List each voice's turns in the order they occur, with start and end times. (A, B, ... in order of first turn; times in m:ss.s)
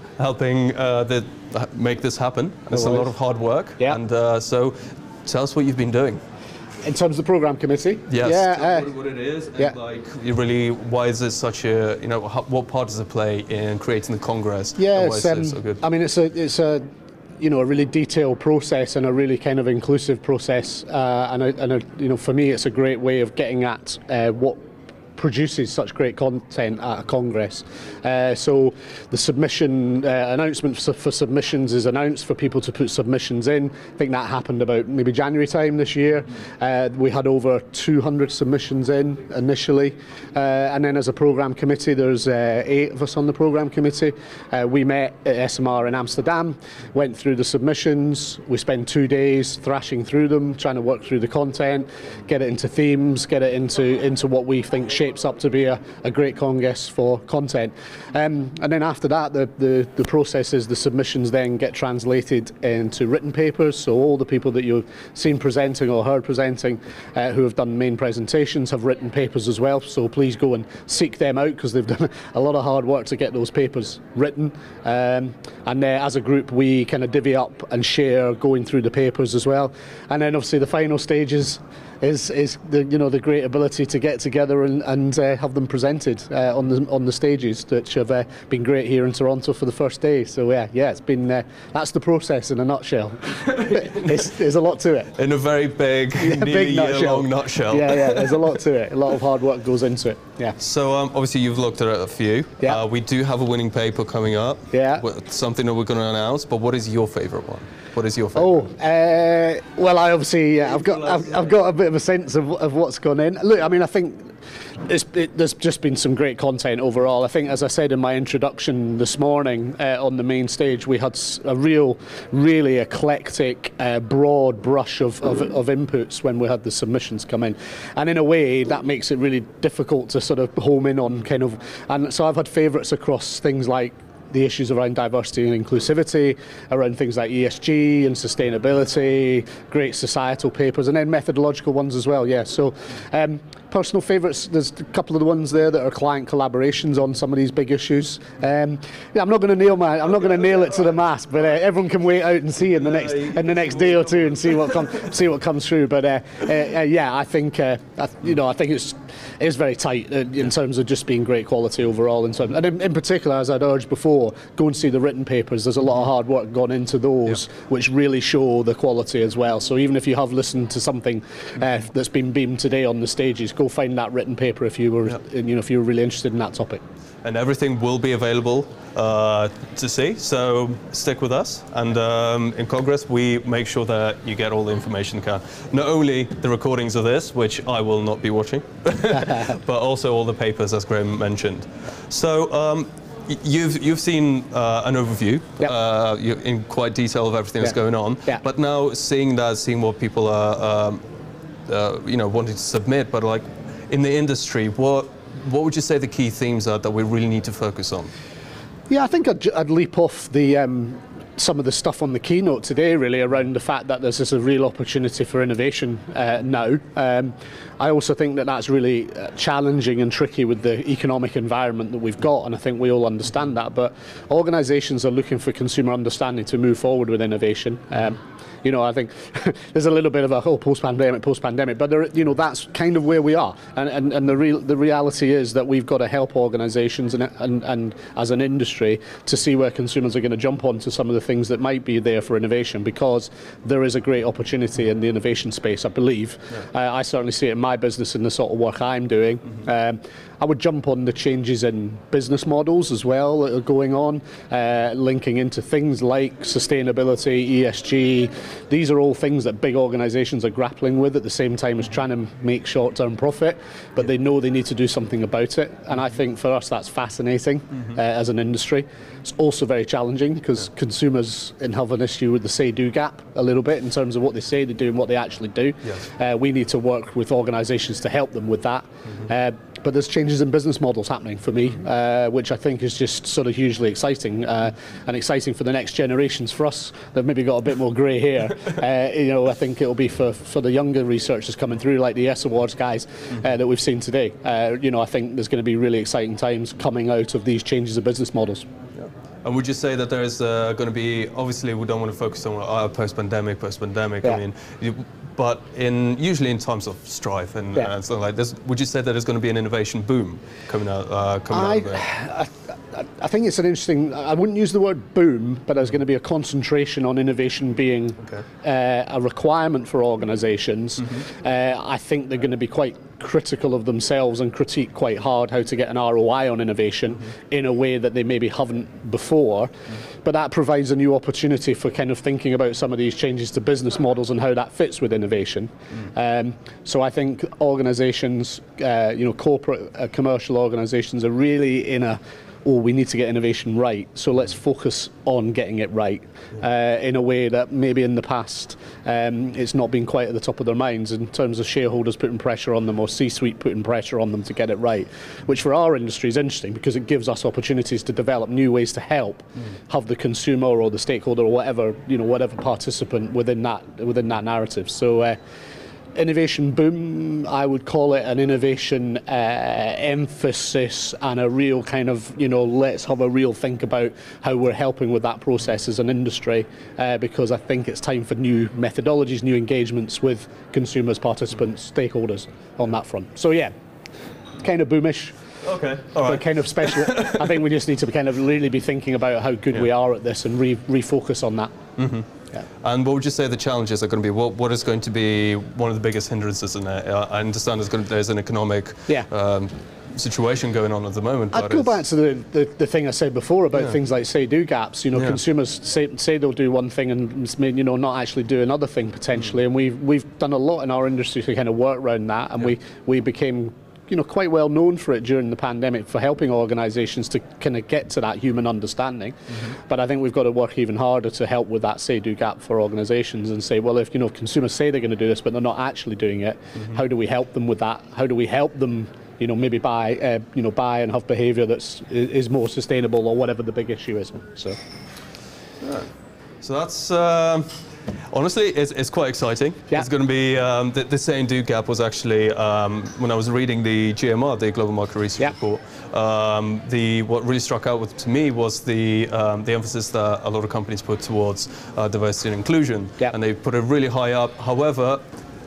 0:00.2-0:06.2 A
0:02.7-0:03.1 B
0:06.8-0:08.9 B
0:08.1-0:15.8 A
0:14.8-0:16.8 B
0:17.4-0:24.6 B
0:25.2-1:35.1 B
1:35.2-1:38.6 A
1:36.2-1:40.6 B
1:40.6-1:48.7 A
1:44.7-1:45.0 B
1:48.4-1:54.3 B
1:50.7-1:51.5 A
1:54.8-2:56.8 B
2:32.6-2:34.9 A
2:57.2-3:21.0 A
3:09.2-3:09.5 B
3:21.7-3:28.1 A
3:28.9-4:58.6 B
4:59.0-5:12.0 A
5:11.5-5:29.7 B
5:30.2-6:05.4 B
6:06.1-6:23.7 B
6:24.6-6:25.4 B
6:25.6-6:27.5 A
6:26.2-6:31.7 B
6:32.0-6:32.2 A
6:32.8-6:42.0 A
6:41.5-7:14.8 B
6:45.1-6:45.4 A
7:15.8-7:16.1 A
7:16.6-7:17.8 A
7:18.3-7:35.2 A